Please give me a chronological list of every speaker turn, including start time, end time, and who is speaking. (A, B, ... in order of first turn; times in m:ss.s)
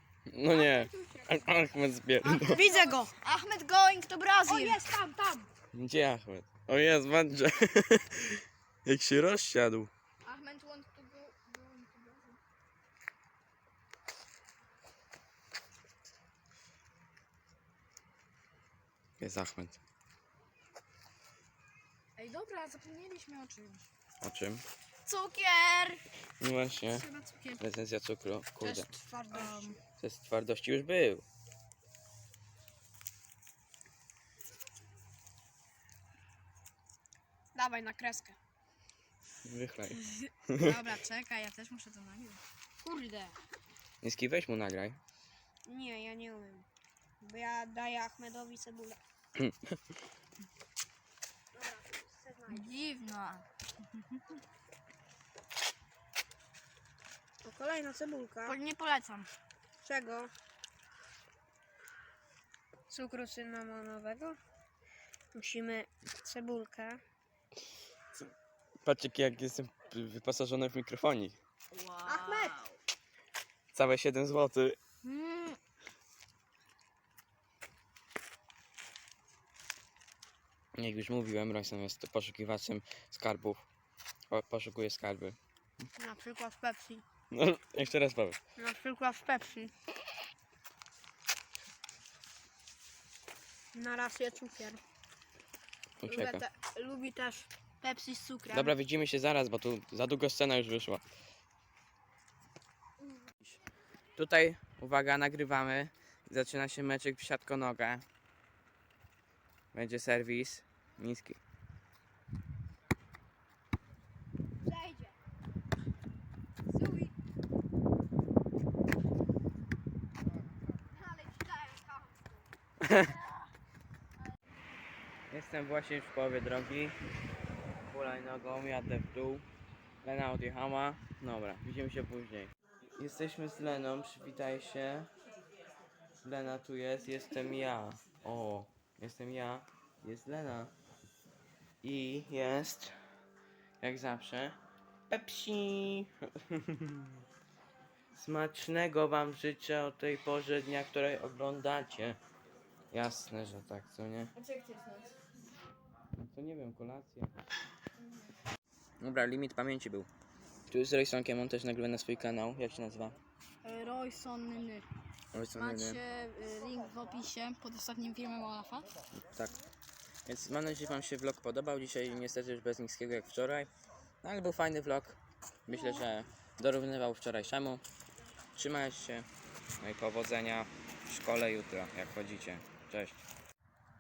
0:00.3-0:02.6 A
0:00.5-0:01.6 B
0:02.2-0:03.6 B
0:02.4-0:04.8 C
0:04.4-0:05.5 B
0:05.7-0:09.9 A
0:10.2-0:12.4 B
0:19.2-0:19.8 A
0:22.2-0:23.9 B
0:24.2-0:24.6 A
0:25.1-0:26.1 B
0:26.4-0:27.1 A
0:26.9-0:27.6 B
0:27.6-0:28.9 A
0:28.6-0:29.8 C
0:29.3-0:29.8 B
0:30.0-0:31.2 A
0:37.6-0:38.4 C
0:39.4-0:40.7 A
0:39.9-0:42.4 B
0:42.8-0:43.4 C
0:44.0-0:45.0 A
0:45.6-0:46.6 C
0:47.2-0:49.0 C
0:51.5-0:52.8 C
0:52.5-0:54.4 B
0:57.4-0:58.6 C
0:58.4-0:59.3 B
0:59.8-1:00.3 C
1:02.9-1:04.4 C
1:05.3-1:07.0 C
1:08.8-1:11.4 A
1:11.7-1:12.6 B
1:12.0-1:12.7 C
1:13.7-1:14.8 A
1:15.0-1:15.6 B
1:20.8-1:23.6 A
1:24.3-1:25.4 A
1:26.0-1:27.0 C
1:27.3-1:28.4 A
1:28.6-1:29.7 C
1:33.7-1:34.8 C
1:36.0-1:36.4 A
1:36.1-1:38.8 C
1:38.5-1:41.0 A
1:44.1-1:48.0 A
1:49.7-1:51.4 A
1:54.7-1:55.1 B
1:56.7-1:57.1 B
2:00.9-2:02.4 B
2:02.8-2:03.1 A
2:05.3-2:07.0 A
2:07.9-2:09.4 A
2:10.0-2:15.1 A
2:16.2-2:20.7 A
2:21.8-2:23.0 A
2:23.8-2:24.6 A
2:25.1-2:27.2 A
2:28.1-2:32.2 A
2:32.9-2:34.3 A
2:34.3-2:35.2 B
2:36.1-2:37.3 A
2:38.0-2:38.2 B
2:39.0-2:40.1 A
2:40.7-2:43.2 A
2:43.6-2:44.9 B
2:45.3-2:46.0 A
2:45.6-2:48.9 B
2:50.2-2:53.7 A
2:54.2-2:57.8 A
2:58.6-2:59.3 A
2:59.8-3:03.2 A